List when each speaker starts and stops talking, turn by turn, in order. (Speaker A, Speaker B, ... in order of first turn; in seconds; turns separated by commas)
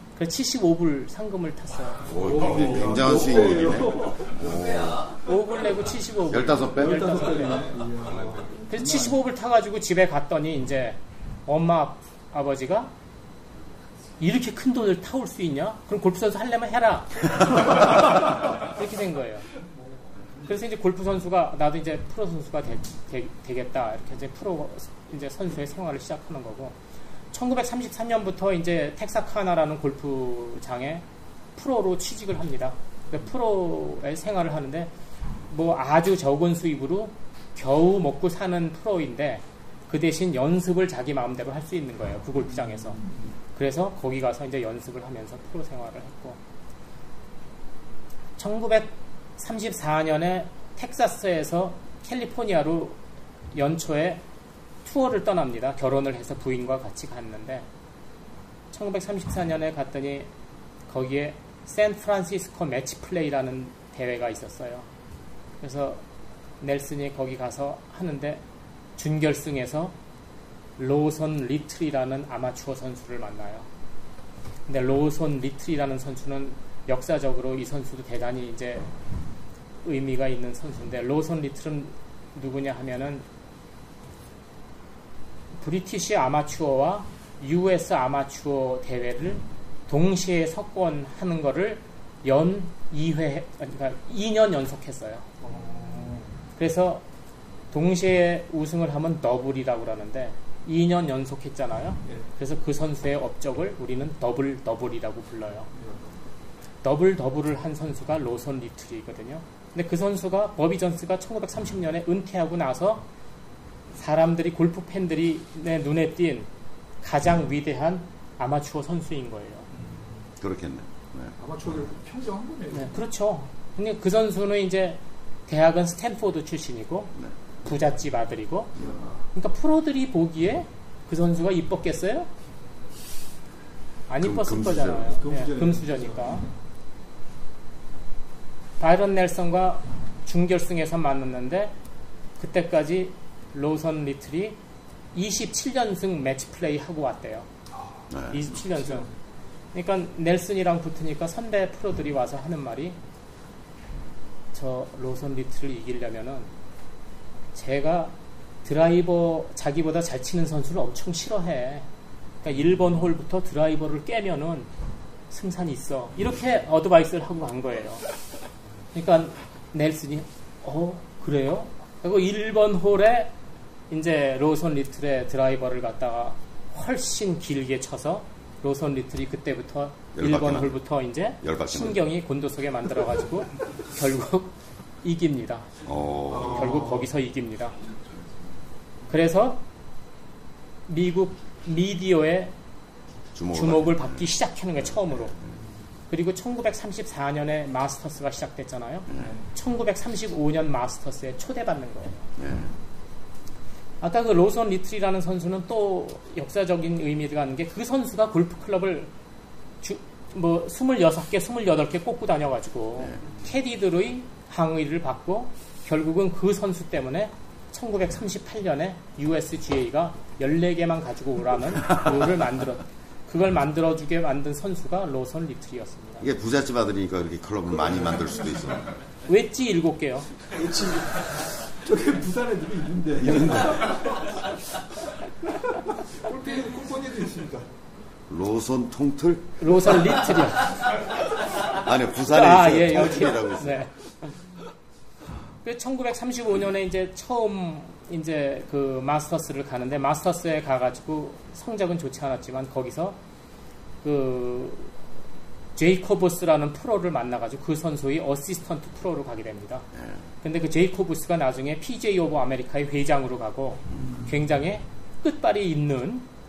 Speaker A: 0.2-2.3, Speaker B: 2.1-5.1, Speaker C: 2.2-4.5, Speaker A: 5.2-7.7, Speaker B: 6.3-7.2, Speaker C: 6.8-9.2, Speaker A: 8.7-12.9, Speaker A: 14.2-19.5, Speaker A: 20.5-26.8, Speaker A: 27.3-31.1, Speaker A: 31.6-34.9, Speaker A: 35.5-43.0, Speaker C: 43.0-43.3, Speaker A: 43.5-46.4, Speaker A: 48.4-53.0, Speaker A: 53.5-54.2, Speaker A: 54.8-57.7, Speaker A: 58.7-60.3, Speaker A: 60.9-64.9, Speaker A: 65.6-66.0, Speaker A: 66.6-68.4, Speaker A: 69.0-70.0, Speaker A: 70.8-73.7, Speaker A: 74.7-78.9, Speaker A: 79.8-83.3, Speaker A: 85.6-95.3, Speaker C: 95.4-96.3, Speaker A: 96.6-97.0, Speaker A: 97.7-105.7, Speaker C: 105.8-106.2, Speaker A: 106.8-113.1, Speaker A: 114.0-116.5, Speaker A: 117.0-119.7, Speaker C: 119.7-120.3, Speaker B: 120.4-121.3, Speaker C: 121.4-123.0, Speaker A: 122.7-128.8, Speaker C: 128.8-129.2, Speaker A: 129.3-132.3, Speaker A: 134.1-136.5, Speaker B: 134.2-135.2, Speaker C: 135.1-136.5, Speaker A: 138.8-141.7, Speaker A: 142.4-144.6, Speaker A: 145.1-147.5, Speaker B: 148.1-148.5, Speaker A: 148.3-149.1, Speaker A: 149.7-153.0, Speaker A: 154.5-156.5, Speaker A: 157.5-161.9, Speaker A: 162.4-164.7, Speaker A: 165.3-168.0, Speaker A: 168.9-173.3, Speaker A: 173.9-185.7, Speaker B: 180.2-180.8, Speaker B: 181.4-182.1, Speaker B: 185.8-186.9, Speaker C: 186.3-187.1, Speaker A: 186.4-187.8, Speaker A: 189.1-189.6, Speaker A: 190.9-192.5, Speaker B: 193.3-194.2, Speaker A: 193.5-195.4, Speaker A: 196.1-202.3, Speaker C: 199.2-199.5, Speaker B: 202.4-202.7, Speaker A: 204.0-209.1, Speaker A: 209.8-226.3, Speaker B: 226.2-228.9, Speaker A: 229.3-230.3, Speaker C: 230.5-234.0, Speaker B: 233.2-233.9, Speaker C: 236.2-237.7, Speaker B: 238.3-239.9, Speaker A: 239.6-241.0, Speaker B: 241.7-243.9, Speaker A: 242.2-244.3, Speaker A: 245.6-253.2, Speaker A: 254.0-254.9, Speaker A: 255.8-259.9, Speaker B: 259.9-260.2, Speaker A: 260.4-266.3, Speaker C: 264.0-264.3